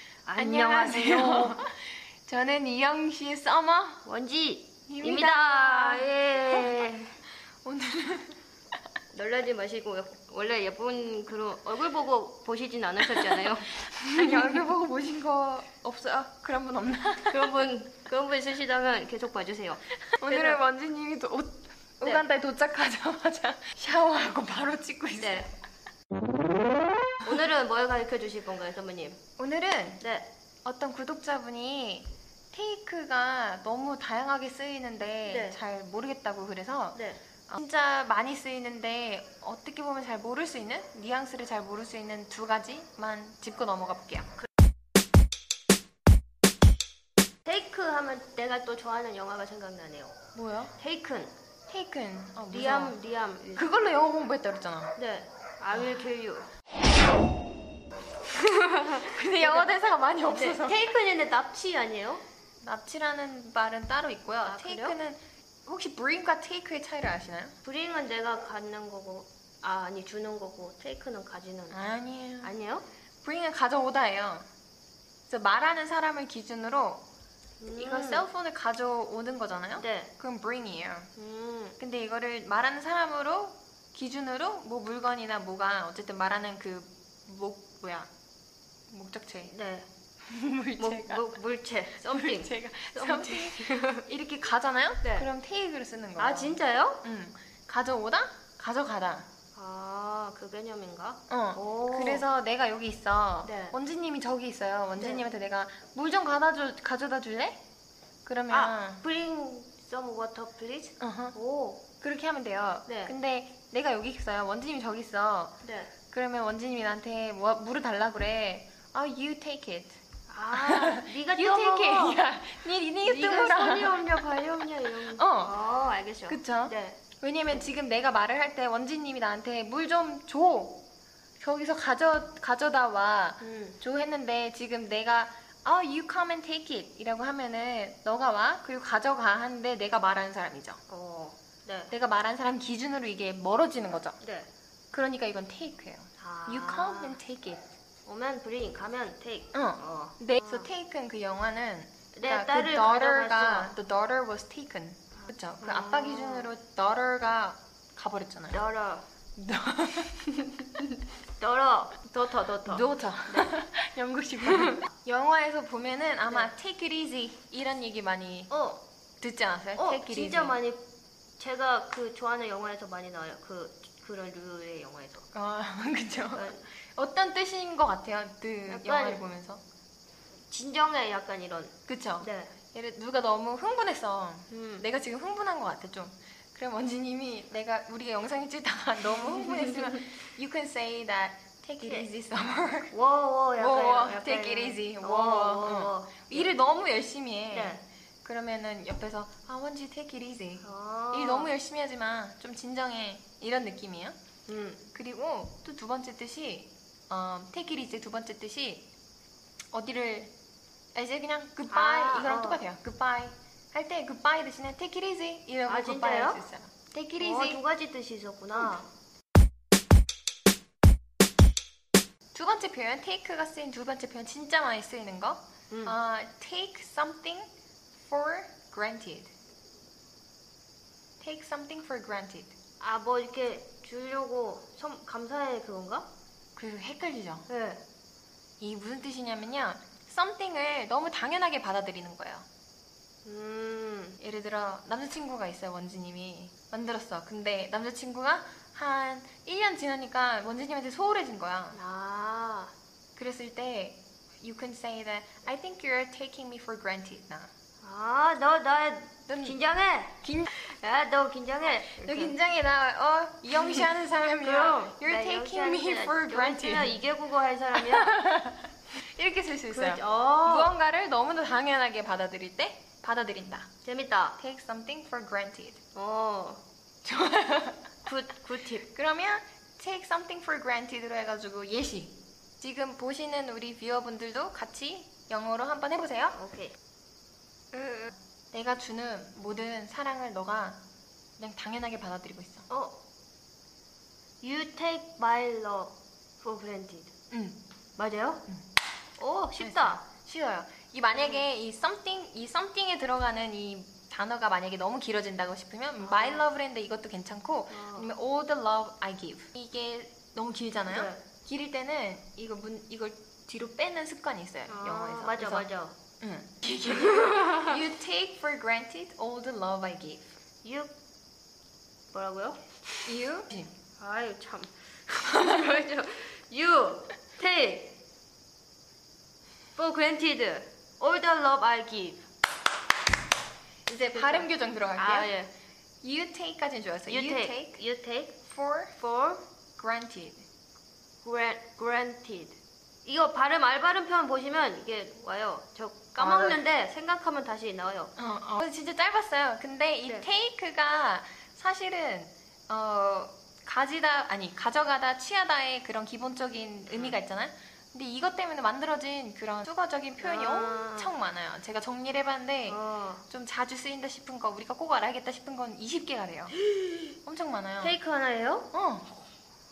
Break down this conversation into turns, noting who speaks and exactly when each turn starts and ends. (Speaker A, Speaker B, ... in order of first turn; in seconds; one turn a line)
Speaker A: 0.2-1.6
Speaker B: 0.3-4.0
Speaker A: 4.0-7.1
Speaker B: 4.9-6.8
Speaker B: 7.6-8.4
Speaker A: 9.1-14.7
Speaker B: 13.1-17.5
Speaker A: 15.8-16.2
Speaker A: 17.3-20.6
Speaker B: 20.1-25.5
Speaker A: 25.2-25.5
Speaker A: 27.2-29.2
Speaker B: 29.4-30.0
Speaker A: 30.0-30.3
Speaker B: 30.6-44.3
Speaker A: 35.3-35.6
Speaker A: 36.9-37.2
Speaker A: 47.4-50.2
Speaker B: 50.3-50.7
Speaker A: 50.8-51.3
Speaker B: 51.7-53.0
Speaker A: 52.5-53.7
Speaker B: 53.5-54.9
Speaker A: 54.9-56.5
Speaker B: 55.7-56.0
Speaker A: 58.3-62.2
Speaker B: 59.0-60.9
Speaker B: 62.6-67.5
Speaker A: 64.4-65.0
Speaker A: 67.6-71.8
Speaker B: 71.7-72.5
Speaker A: 72.4-72.8
Speaker B: 73.2-74.5
Speaker B: 75.3-77.0
Speaker A: 77.6-78.2
Speaker B: 77.7-81.1
Speaker A: 79.8-80.1
Speaker A: 81.2-81.8
Speaker B: 81.8-88.1
Speaker B: 88.9-89.5
Speaker A: 89.5-89.9
Speaker B: 90.2-91.3
Speaker A: 90.8-94.0
Speaker B: 92.0-99.3
Speaker A: 95.0-95.3
Speaker A: 96.2-97.0
Speaker A: 99.5-102.3
Speaker B: 101.3-107.6
Speaker A: 103.4-103.8
Speaker A: 105.0-105.2
Speaker B: 108.2-109.0
Speaker A: 108.5-111.8
Speaker B: 111.0-111.4
Speaker B: 112.0-115.5
Speaker A: 112.9-113.1
Speaker A: 115.6-115.9
Speaker B: 116.1-125.5
Speaker A: 120.3-122.2
Speaker A: 123.0-127.0
Speaker B: 126.3-130.8
Speaker B: 131.4-140.8
Speaker A: 133.4-133.8
Speaker A: 140.9-141.9
Speaker B: 141.9-144.2
Speaker A: 144.2-144.5
Speaker B: 144.9-147.6
Speaker A: 146.2-147.2
Speaker A: 148.0-150.7
Speaker B: 149.5-158.7
Speaker A: 152.1-153.8
Speaker A: 155.2-156.5
Speaker A: 158.5-159.0
Speaker B: 159.4-160.4
Speaker A: 161.4-163.5
Speaker B: 162.6-168.5
Speaker A: 164.4-164.8
Speaker A: 168.5-168.8
Speaker B: 169.2-170.6
Speaker A: 169.8-170.8
Speaker A: 171.4-175.3
Speaker B: 175.3-179.6
Speaker A: 176.3-176.7
Speaker A: 178.7-179.2
Speaker A: 180.5-182.5
Speaker B: 181.8-192.9
Speaker A: 184.5-184.9
Speaker A: 189.3-189.8
Speaker A: 191.8-192.1
Speaker A: 192.9-196.5
Speaker B: 193.6-204.2
Speaker A: 197.5-197.8
Speaker A: 200.6-201.5
Speaker A: 204.5-204.8
Speaker B: 204.9-208.9
Speaker B: 209.7-210.3
Speaker B: 210.9-217.6
Speaker A: 211.7-212.6
Speaker A: 215.7-216.4
Speaker A: 217.2-218.9
Speaker B: 222.3-227.5
Speaker A: 225.7-226.0
Speaker B: 228.0-229.3
Speaker B: 231.2-232.5
Speaker A: 232.8-236.1
Speaker B: 236.6-237.5
Speaker A: 237.5-237.8
Speaker B: 238.6-242.4
Speaker A: 243.2-244.2
Speaker B: 244.2-251.8
Speaker A: 251.7-252.7
Speaker B: 253.1-257.5
Speaker A: 257.8-262.4
Speaker B: 259.3-259.6
Speaker B: 260.2-260.5
Speaker B: 261.9-267.0
Speaker A: 264.4-268.2
Speaker B: 267.7-273.7
Speaker A: 269.7-270.8
Speaker A: 273.8-274.4
Speaker B: 274.4-275.8
Speaker A: 275.9-276.6
Speaker B: 277.0-277.9
Speaker A: 278.0-278.9
Speaker B: 278.9-286.4
Speaker A: 286.3-286.7
Speaker A: 287.7-288.1
Speaker B: 288.5-290.8
Speaker B: 291.4-292.7
Speaker A: 292.7-293.0
Speaker A: 294.4-297.1
Speaker B: 297.3-297.6
Speaker A: 298.0-298.4
Speaker A: 299.2-300.0
Speaker B: 299.6-320.3
Speaker A: 301.2-301.4
Speaker A: 306.0-306.4
Speaker A: 307.7-308.1
Speaker A: 310.9-311.2
Speaker A: 314.7-315.9
Speaker A: 316.9-317.8
Speaker A: 320.6-320.9
Speaker A: 322.1-322.6
Speaker B: 323.1-323.7
Speaker A: 324.0-327.9
Speaker A: 329.7-332.2
Speaker B: 333.9-335.3
Speaker A: 334.1-335.5
Speaker B: 336.0-337.8
Speaker A: 337.1-338.4
Speaker B: 338.4-339.0
Speaker A: 339.0-339.4
Speaker B: 339.8-340.4
Speaker A: 341.2-348.1
Speaker B: 346.2-346.6
Speaker B: 348.1-366.6
Speaker A: 356.9-357.2
Speaker A: 360.2-361.1
Speaker A: 362.7-363.2
Speaker A: 366.6-367.0
Speaker B: 367.2-367.9
Speaker A: 367.8-368.7
Speaker B: 368.7-369.1